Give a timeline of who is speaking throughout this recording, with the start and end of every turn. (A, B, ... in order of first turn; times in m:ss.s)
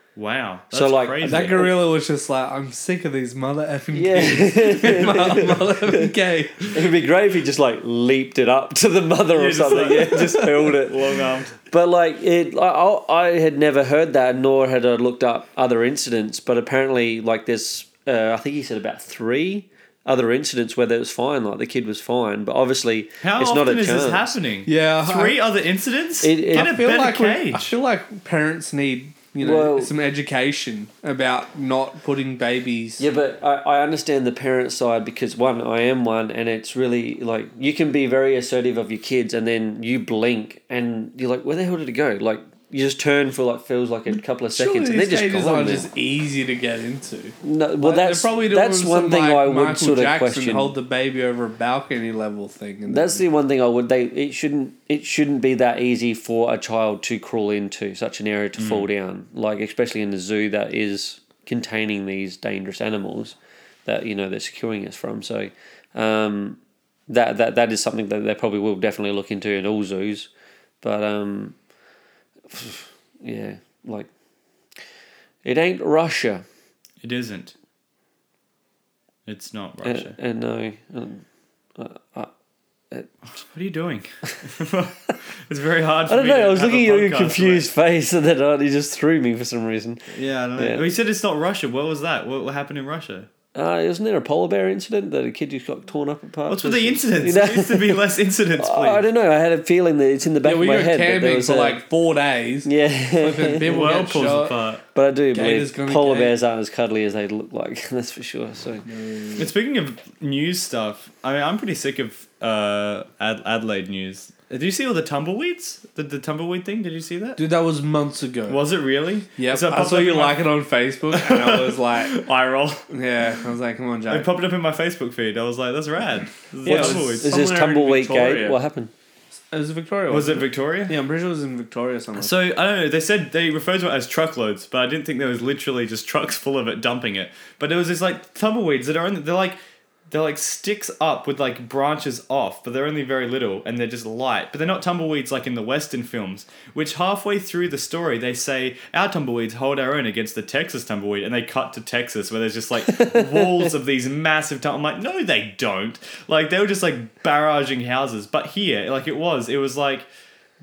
0:00.2-0:01.7 A
0:00.7-0:01.7 B
0:01.2-0:06.7 C
0:03.9-0:06.1 B
0:06.7-0:11.2 B
0:09.3-0:11.6 A
0:11.7-0:24.4 B
0:23.2-0:27.8 A
0:24.6-0:25.4 C
0:26.2-0:26.7 B
0:26.5-0:33.0 C
0:29.4-0:29.9 B
0:33.0-0:45.8 B
0:44.5-0:53.2 C
0:47.4-0:50.7 B
0:52.9-1:10.3 B
0:58.6-0:58.9 A
1:10.8-1:11.6 B
1:12.5-1:14.1 B
1:15.4-1:16.4 B
1:17.0-1:17.5 A
1:19.2-1:20.2 A
1:19.8-1:21.2 B
1:21.8-1:22.3 B
1:23.3-1:27.7 A
1:26.1-1:30.8 B
1:30.1-1:33.3 A
1:33.5-1:38.0 B
1:36.5-1:39.0 A
1:38.6-1:41.8 B
1:40.4-1:44.5 C
1:42.6-1:43.8 B
1:43.6-1:44.8 A
1:44.9-1:48.8 B
1:45.3-1:46.3 C
1:48.8-1:49.5 C
1:49.4-1:57.4 A
1:57.4-1:58.6 C
1:58.5-2:00.4 A
1:59.4-2:02.2 C
2:01.1-2:02.8 A
2:02.9-2:04.3 C
2:04.1-2:07.4 A
2:06.6-2:08.9 B
2:06.6-2:08.6 C
2:09.5-2:12.3 C
2:10.1-2:11.0 A
2:12.2-2:19.6 A
2:20.1-2:40.1 A
2:32.9-2:33.7 B